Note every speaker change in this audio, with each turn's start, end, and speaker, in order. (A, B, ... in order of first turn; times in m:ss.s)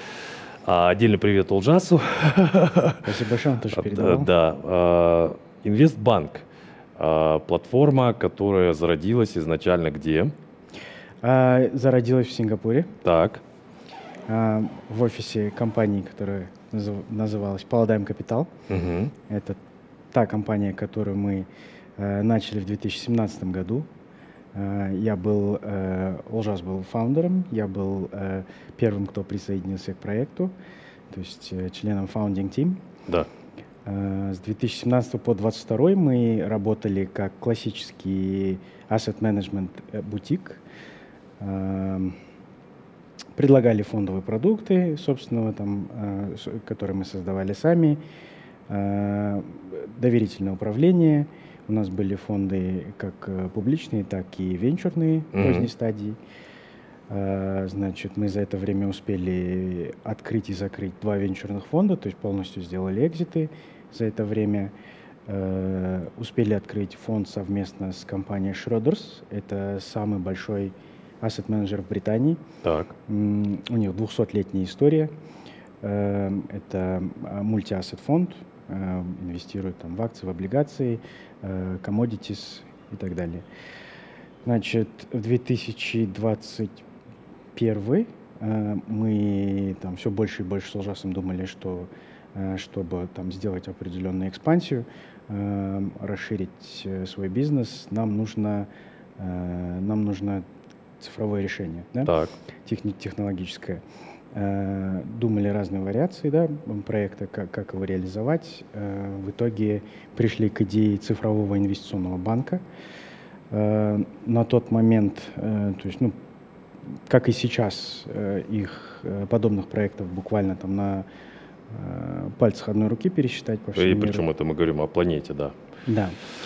0:00.6-0:03.1 A
0:03.0-0:04.3 B
0:03.7-0:06.4 A
0:07.0-0:10.3 A
0:11.2-0:12.9 B
0:13.0-0:13.4 A
0:14.3-0:18.5 B
0:18.7-0:19.1 A
0:19.3-0:19.6 B
0:20.1-0:23.9 B
0:24.5-0:30.5 B
0:31.1-0:32.8 B
0:33.8-0:40.6 B
0:41.4-0:42.2 B
0:43.4-0:48.0 B
0:48.7-0:56.2 B
0:55.3-0:55.7 A
0:57.1-1:04.7 B
1:05.3-1:12.4 B
1:12.6-1:12.9 A
1:13.1-1:15.1 B
1:15.8-1:23.4 B
1:24.4-1:26.8 B
1:27.5-1:40.4 B
1:41.0-1:42.1 B
1:42.0-1:42.3 A
1:42.6-1:43.8 B
1:44.3-1:52.6 B
1:53.5-1:56.1 B
1:57.1-2:01.0 B
2:01.7-2:04.2 B
2:03.8-2:05.5 A
2:05.9-2:06.2 B